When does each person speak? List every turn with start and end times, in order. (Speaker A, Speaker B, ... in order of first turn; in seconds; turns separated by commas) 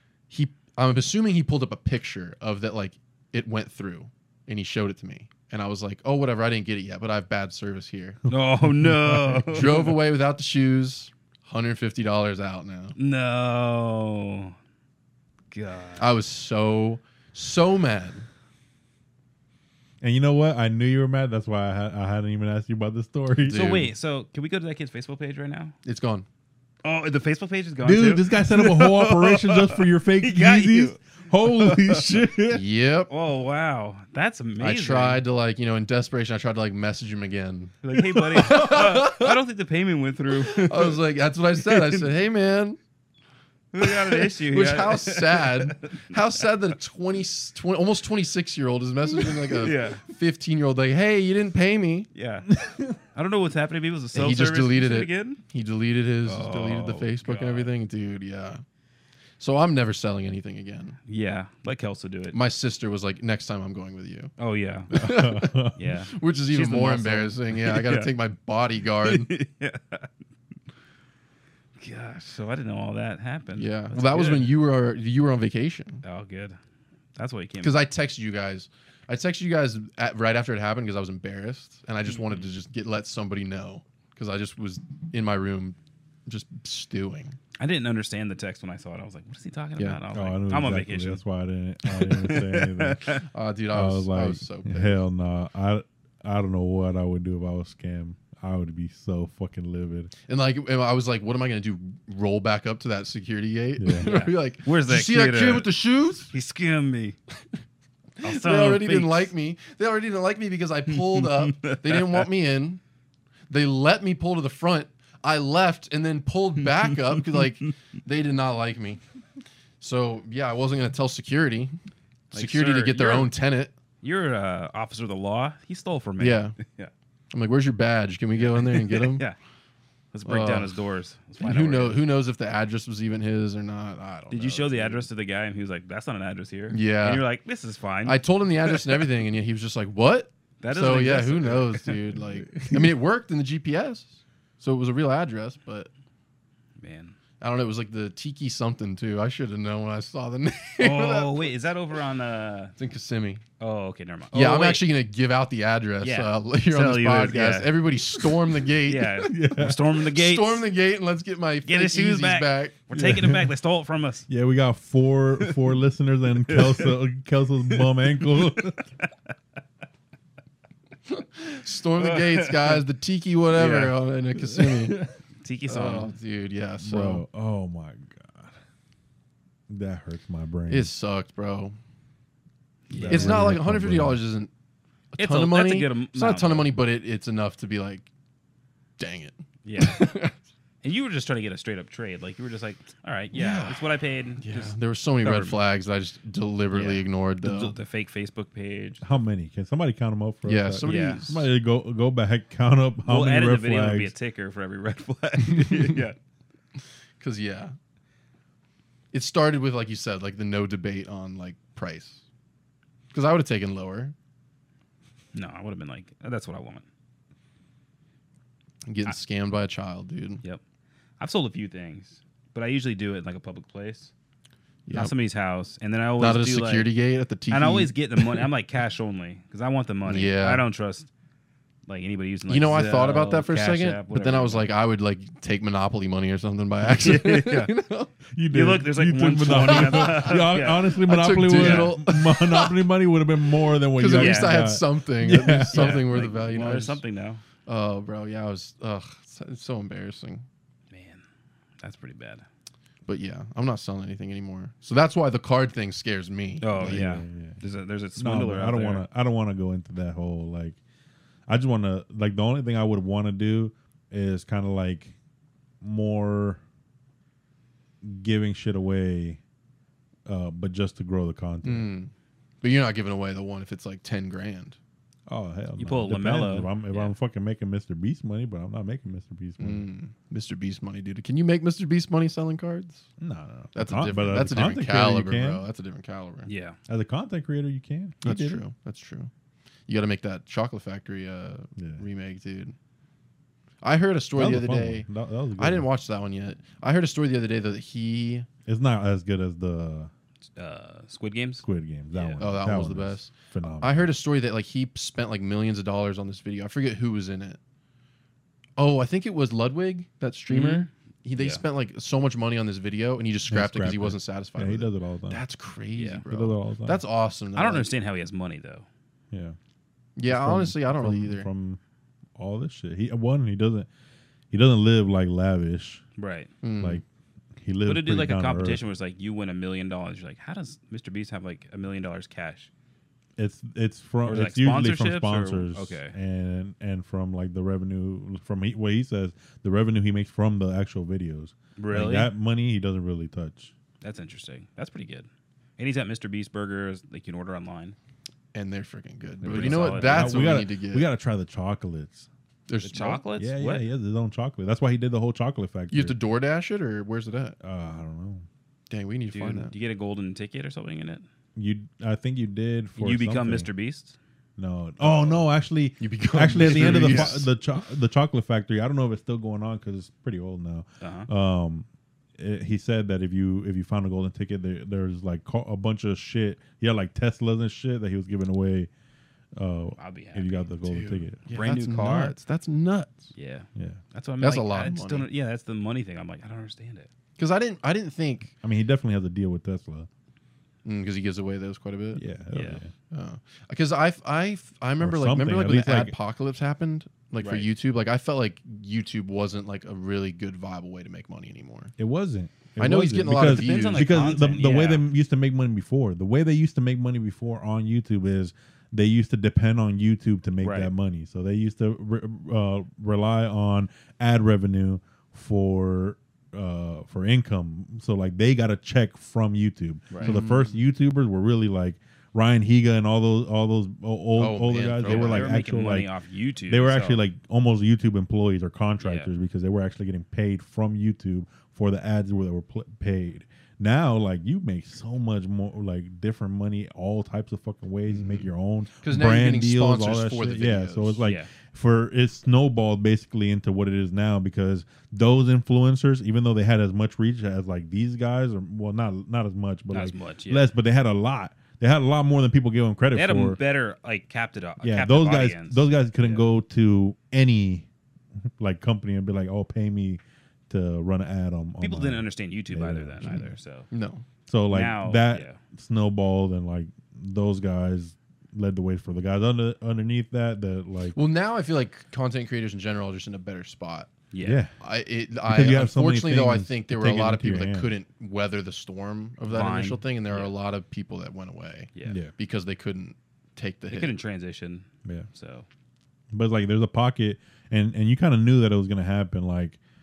Speaker A: 0.3-8.2, Speaker B: 8.2-9.7, Speaker C: 8.3-10.0, Speaker A: 9.5-12.9, Speaker C: 13.0-14.6, Speaker C: 15.5-16.1, Speaker A: 16.0-18.3, Speaker B: 20.0-23.8, Speaker A: 23.5-23.9, Speaker C: 23.5-25.7, Speaker A: 25.9-26.3, Speaker C: 26.8-32.1, Speaker B: 27.8-32.6, Speaker A: 32.5-33.1, Speaker C: 33.1-35.2, Speaker A: 34.6-39.4, Speaker C: 37.8-41.0, Speaker A: 40.3-42.8, Speaker C: 41.6-42.1, Speaker C: 43.7-46.2, Speaker A: 43.8-52.1, Speaker C: 49.1-50.0, Speaker C: 52.1-52.5, Speaker B: 52.5-53.0, Speaker C: 53.1-55.4, Speaker A: 54.1-58.6, Speaker C: 56.3-57.7, Speaker A: 59.4-61.0, Speaker C: 61.1-62.4, Speaker A: 62.3-64.3, Speaker C: 64.4-64.9, Speaker A: 64.9-65.6, Speaker B: 64.9-65.8, Speaker C: 65.8-68.1, Speaker A: 66.1-69.3, Speaker C: 69.0-70.1, Speaker C: 71.8-74.5, Speaker A: 73.6-76.0, Speaker C: 76.0-76.6, Speaker C: 77.2-77.8, Speaker A: 77.6-85.8, Speaker A: 86.3-87.4, Speaker C: 87.6-91.2, Speaker B: 90.1-93.1, Speaker C: 91.8-93.2, Speaker A: 93.2-95.0, Speaker B: 93.7-100.1, Speaker A: 100.3-106.3, Speaker B: 103.8-104.1, Speaker C: 104.0-105.7, Speaker C: 106.3-107.2, Speaker A: 108.2-112.8, Speaker C: 108.2-109.3, Speaker C: 110.9-112.3, Speaker A: 113.5-119.0, Speaker C: 117.1-117.4, Speaker A: 119.8-121.7, Speaker C: 122.3-123.3, Speaker A: 122.3-123.7, Speaker C: 124.0-126.9, Speaker A: 126.2-126.6, Speaker A: 127.3-129.2, Speaker C: 128.4-129.3, Speaker C: 130.1-132.0, Speaker A: 130.3-130.7, Speaker A: 131.4-135.1, Speaker C: 134.3-139.1, Speaker A: 136.7-137.3, Speaker A: 138.1-145.9, Speaker C: 140.6-142.0, Speaker B: 142.6-142.9, Speaker C: 146.8-147.2, Speaker A: 147.4-151.4, Speaker C: 150.8-152.8, Speaker A: 152.8-153.4, Speaker C: 153.6-154.8, Speaker A: 154.3-162.8, Speaker C: 156.0-160.7, Speaker B: 159.3-159.8, Speaker C: 161.7-164.3, Speaker B: 162.9-163.5, Speaker B: 164.3-168.8, Speaker C: 166.5-166.9, Speaker C: 167.7-169.1, Speaker A: 171.1-175.0, Speaker C: 172.0-172.8, Speaker C: 173.6-173.9, Speaker B: 174.5-175.1, Speaker C: 175.4-176.2, Speaker A: 175.7-177.2, Speaker B: 176.8-178.5, Speaker B: 179.7-180.9, Speaker A: 180.7-181.8, Speaker C: 182.9-183.5, Speaker B: 182.9-184.2, Speaker A: 183.0-184.5, Speaker A: 185.1-188.1, Speaker C: 185.2-186.7, Speaker A: 189.0-190.3, Speaker C: 189.7-190.0, Speaker C: 190.8-195.6, Speaker A: 193.3-193.9, Speaker A: 194.4-197.8, Speaker C: 196.7-199.0, Speaker B: 199.0-204.1, Speaker A: 200.5-201.5, Speaker C: 200.8-201.3, Speaker C: 203.1-206.2, Speaker A: 205.5-206.0, Speaker A: 207.2-207.7, Speaker A: 209.1-212.2, Speaker A: 213.1-214.1, Speaker C: 215.3-216.8, Speaker A: 218.9-220.4, Speaker C: 221.2-224.1, Speaker A: 224.9-225.1, Speaker C: 224.9-226.9, Speaker A: 226.2-228.5, Speaker C: 227.5-231.1, Speaker A: 230.1-230.6, Speaker C: 231.9-234.7, Speaker A: 232.5-238.1, Speaker C: 236.8-237.7, Speaker B: 238.3-246.1, Speaker C: 238.5-241.0, Speaker A: 239.6-240.3, Speaker A: 241.0-242.8, Speaker C: 241.5-241.9, Speaker A: 243.9-247.0, Speaker C: 244.1-244.6, Speaker C: 245.7-247.4, Speaker A: 247.7-250.4, Speaker C: 250.9-251.2, Speaker C: 251.8-252.4, Speaker A: 253.1-257.1, Speaker C: 256.6-259.1, Speaker B: 256.8-257.6, Speaker B: 258.2-260.8, Speaker B: 261.5-265.1, Speaker B: 265.8-266.6, Speaker B: 268.0-269.4, Speaker B: 270.3-271.9, Speaker A: 271.6-274.8, Speaker B: 275.3-279.9, Speaker C: 275.8-277.1, Speaker A: 279.6-283.1, Speaker B: 283.2-285.6, Speaker A: 283.7-286.5, Speaker C: 286.5-286.8, Speaker B: 286.9-288.6, Speaker A: 288.2-289.3, Speaker A: 289.9-292.8, Speaker B: 291.8-292.0, Speaker A: 293.8-295.1, Speaker B: 294.4-295.9, Speaker A: 295.6-298.5, Speaker B: 298.7-300.1, Speaker C: 300.6-302.5, Speaker B: 301.6-304.1, Speaker A: 302.4-307.6, Speaker A: 308.8-317.9, Speaker C: 310.5-311.6, Speaker B: 313.5-315.4, Speaker C: 316.0-316.2, Speaker B: 316.3-317.0, Speaker C: 317.6-318.9, Speaker B: 319.3-319.6, Speaker A: 320.2-321.5, Speaker B: 320.3-321.8, Speaker B: 322.4-323.9, Speaker B: 324.5-326.0, Speaker C: 326.2-326.5, Speaker A: 326.6-327.0, Speaker B: 327.6-328.8, Speaker C: 327.9-332.7, Speaker B: 333.4-343.7, Speaker C: 334.2-336.1, Speaker C: 341.8-342.3, Speaker C: 344.0-345.3, Speaker C: 345.8-348.0, Speaker A: 348.5-351.1, Speaker B: 349.4-352.3, Speaker C: 349.4-350.6, Speaker A: 352.7-353.2, Speaker C: 352.8-353.9, Speaker B: 353.4-356.2, Speaker A: 355.9-357.6, Speaker B: 357.6-358.4, Speaker A: 358.9-359.7, Speaker C: 359.3-361.2, Speaker B: 361.6-363.7, Speaker C: 363.0-364.2, Speaker B: 364.6-371.9, Speaker C: 365.0-365.3, Speaker A: 366.0-367.5, Speaker C: 366.6-367.4, Speaker C: 371.0-371.3, Speaker B: 372.4-378.9, Speaker B: 379.6-381.4, Speaker C: 380.0-380.7, Speaker A: 380.9-383.3, Speaker C: 381.5-382.4, Speaker C: 383.3-387.1, Speaker A: 384.4-385.3, Speaker A: 387.4-388.5, Speaker B: 388.6-390.1, Speaker A: 390.9-392.2, Speaker B: 392.1-392.9, Speaker C: 392.5-392.8, Speaker A: 393.1-401.9, Speaker B: 395.0-396.1, Speaker C: 397.4-397.7, Speaker B: 402.0-426.1, Speaker A: 402.8-404.2, Speaker C: 403.3-405.1, Speaker C: 410.6-410.9, Speaker C: 420.1-420.4, Speaker A: 420.2-420.8, Speaker A: 424.4-425.6, Speaker C: 425.1-427.2, Speaker B: 426.7-453.6, Speaker C: 429.0-429.3, Speaker A: 438.1-438.5, Speaker A: 439.0-441.2, Speaker C: 449.9-450.7, Speaker C: 453.1-456.4, Speaker B: 454.8-457.9, Speaker B: 458.6-463.5, Speaker C: 461.8-463.9, Speaker A: 463.2-464.2, Speaker B: 464.5-471.2, Speaker C: 464.7-465.6, Speaker A: 471.1-474.1, Speaker C: 474.3-474.6, Speaker B: 474.4-474.7, Speaker A: 474.8-484.1, Speaker B: 475.4-477.9, Speaker C: 479.5-480.5, Speaker C: 481.9-482.2, Speaker B: 482.1-482.3, Speaker C: 483.9-485.7, Speaker B: 486.3-489.8